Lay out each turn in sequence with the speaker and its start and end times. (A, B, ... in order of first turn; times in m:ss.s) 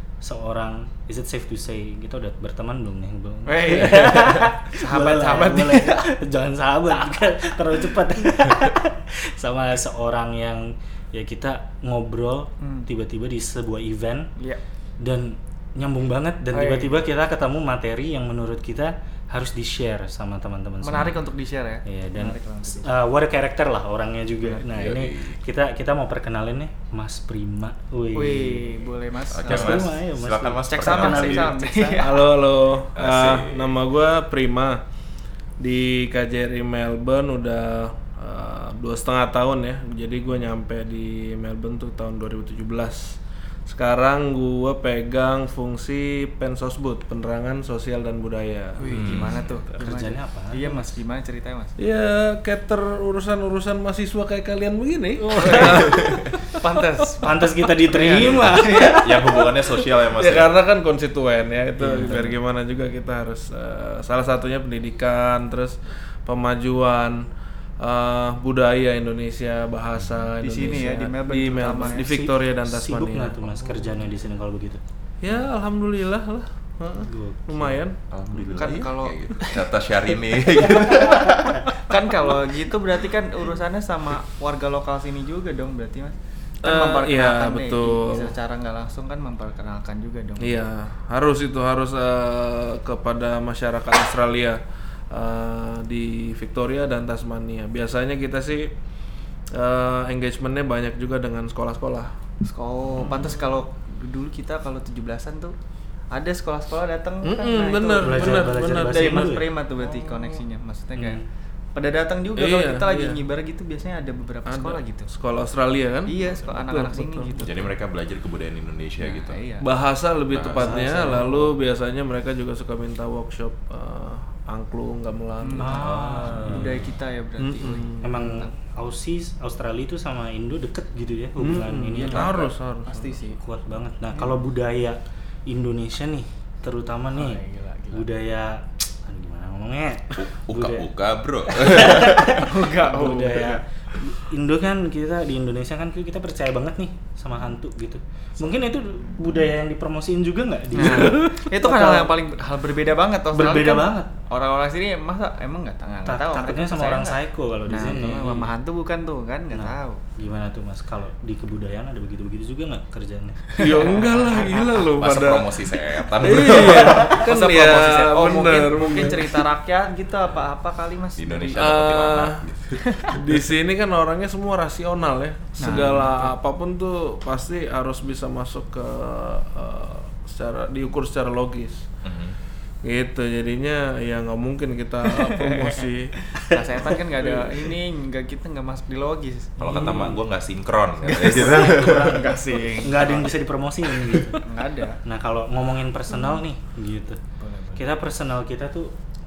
0:00.2-0:14.3 A
0:03.5-0:06.1 B
0:12.6-0:12.9 B
0:15.0-0:21.2 A
0:16.5-0:17.0 B
0:20.8-0:22.9 B
0:21.9-0:28.7 A
0:24.7-0:25.4 C
0:28.2-0:29.9 B
0:29.3-0:31.5 C
0:29.4-0:32.1 A
0:30.7-0:32.3 B
0:32.0-0:34.8 D
0:33.0-0:33.8 C
0:35.6-0:49.2 D
0:48.8-0:51.8 B
0:48.9-0:49.6 C
0:49.8-0:50.8 A
0:51.8-0:56.2 D
0:55.3-0:55.9 A
0:55.4-0:56.0 B
0:55.7-0:56.3 C
0:56.6-0:59.1 A
0:57.9-0:59.3 B
0:58.1-1:00.5 C
1:00.2-1:07.3 D
1:01.8-1:02.2 A
1:01.9-1:02.3 B
1:07.8-1:13.4 D
1:10.0-1:10.3 C
1:10.4-1:12.1 B
1:10.7-1:11.0 A
1:11.8-1:14.8 A
1:13.6-1:14.2 B
1:15.2-1:18.0 D
1:17.0-1:17.8 A
1:18.1-1:21.7 C
1:18.6-1:19.8 B
1:20.5-1:21.1 B
1:21.8-1:30.6 B
1:26.6-1:28.3 D
1:30.4-1:38.7 D
1:39.5-1:42.1 D
1:42.4-1:45.5 B
1:46.1-1:51.2 B
1:47.3-1:49.3 D
1:48.0-1:50.4 A
1:51.0-1:51.2 A
1:51.8-1:55.1 B
1:52.4-1:53.2 D
1:54.5-1:57.5 D
1:56.1-1:57.7 B
1:57.4-1:59.4 C
1:59.0-1:59.7 B
1:59.6-2:06.8 D
2:00.3-2:00.8 C
2:00.6-2:01.5 A
2:05.4-2:08.5 B
2:05.6-2:06.7 A
2:07.4-2:08.0 D
2:08.0-2:12.5 A
2:11.4-2:13.2 D
2:12.9-2:13.4 B
2:13.4-2:17.4 A
2:17.1-2:18.1 B
2:17.9-2:20.9 A
2:20.2-2:22.4 C
2:21.5-2:32.1 A
2:22.4-2:23.6 B
2:30.7-2:37.2 B
2:33.3-2:34.1 A
2:36.1-2:38.5 A
2:37.7-2:40.0 B
2:39.5-2:44.6 A
2:43.6-2:45.6 D
2:43.9-2:44.5 B
2:45.0-2:47.2 C
2:46.2-2:49.4 D
2:46.4-2:51.7 B
2:51.2-2:52.8 C
2:51.6-2:52.4 D
2:52.8-2:53.2 B
2:53.1-3:01.9 D
2:55.6-2:56.2 B
2:55.7-2:56.1 A
3:02.0-3:02.4 C
3:02.8-3:06.2 D
3:05.1-3:10.1 B
3:06.8-3:07.6 D
3:09.6-3:12.3 C
3:09.6-3:10.2 A
3:11.0-3:13.3 B
3:11.6-3:14.4 A
3:14.4-3:15.0 B
3:15.0-3:17.2 A
3:17.4-3:17.9 B
3:17.8-3:18.9 A